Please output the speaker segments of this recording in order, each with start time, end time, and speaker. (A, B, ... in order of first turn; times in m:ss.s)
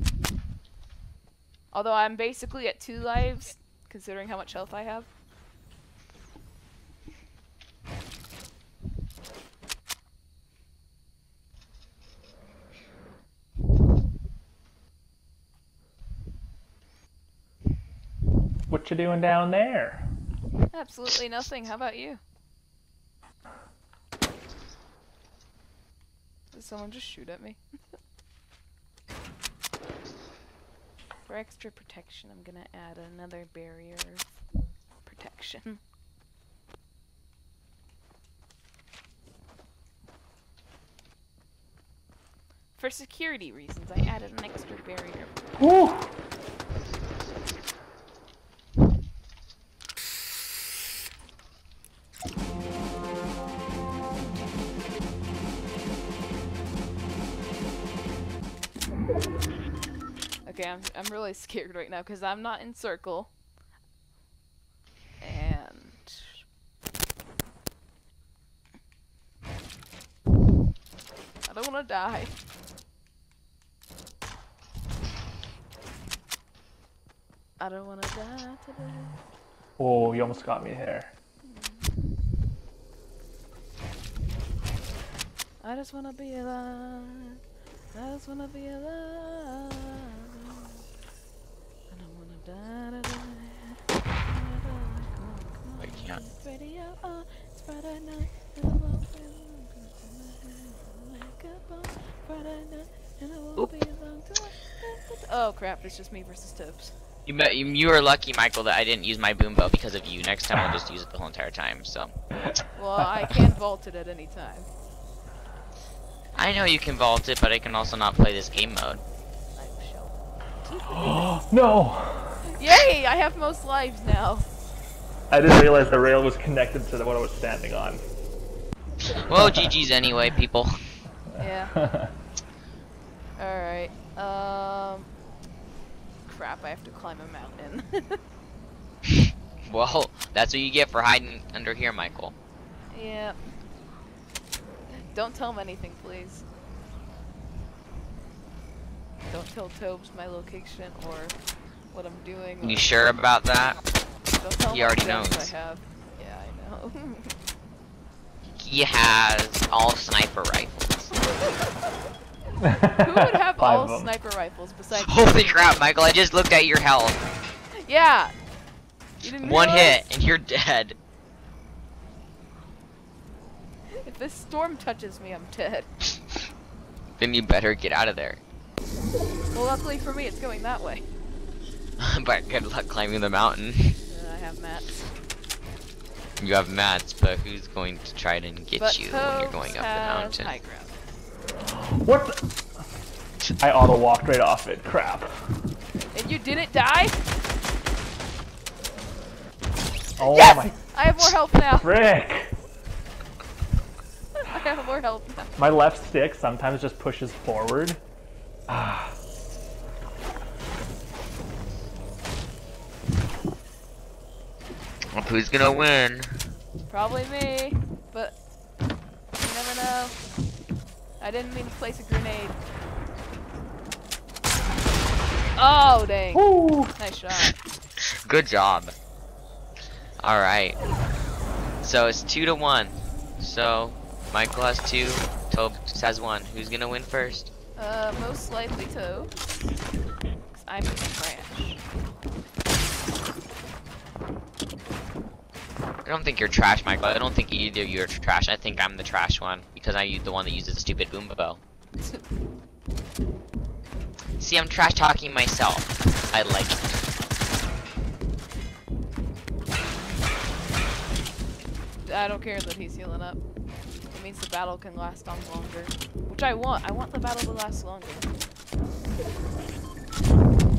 0:01.7-0:05.1 A
0:18.7-0:20.1 B
0:20.7-0:22.2 A
0:26.5-0:27.6 A
0:31.3-0:34.3 A
0:35.0-0:35.8 A
0:42.8-0:45.3 A
0:45.6-0:46.1 B
1:00.5-1:03.3 A
1:05.2-1:06.4 A
1:11.5-1:12.3 A
1:17.6-1:19.2 A
1:19.8-1:21.1 B
1:21.4-1:22.0 A
1:25.6-1:27.4 A
1:27.9-1:30.8 A
1:31.9-1:46.9 A
1:35.8-1:36.2 C
1:47.3-1:52.1 C
1:52.8-1:54.7 A
1:56.4-1:59.0 C
1:59.6-2:01.3 A
2:00.9-2:02.5 B
2:02.5-2:04.5 A
2:05.3-2:08.0 B
2:09.0-2:10.8 C
2:09.4-2:09.7 B
2:11.4-2:11.8 A
2:11.8-2:12.1 B
2:13.4-2:15.1 A
2:16.2-2:18.2 A
2:19.7-2:22.4 C
2:22.9-2:23.4 A
2:24.9-2:26.4 A
2:29.3-2:31.4 A
2:31.9-2:32.9 A
2:32.6-2:33.8 C
2:34.3-2:37.3 A
2:34.7-2:35.5 C
2:38.6-2:41.1 C
2:42.6-2:44.1 B
2:43.0-2:45.8 A
2:44.9-2:47.2 C
2:47.8-2:48.3 A
2:49.2-2:50.0 A
2:49.4-2:51.0 C
2:54.0-2:55.9 A
2:57.2-2:58.4 C
2:59.5-3:01.1 A
3:02.0-3:04.0 C
3:04.1-3:05.1 A
3:06.4-3:10.5 C
3:08.8-3:10.9 A
3:11.7-3:12.5 B
3:13.6-3:15.3 B
3:16.1-3:17.2 A
3:20.2-3:20.8 B
3:20.2-3:22.1 A
3:21.8-3:22.6 B
3:24.4-3:25.5 A
3:25.6-3:28.0 B
3:28.7-3:29.2 B
3:35.1-3:36.3 C
3:36.9-3:38.4 A
3:39.4-3:40.2 A
3:41.2-3:42.6 A
3:45.6-3:47.5 A
3:46.3-3:46.9 B
3:48.2-3:48.9 C
3:50.2-3:50.8 C
3:51.8-3:57.5 C
3:57.8-3:59.4 A
4:00.5-4:01.8 A
4:06.0-4:11.6 C
4:14.4-4:16.9 C
4:22.0-4:23.4 A
4:24.1-4:28.3 A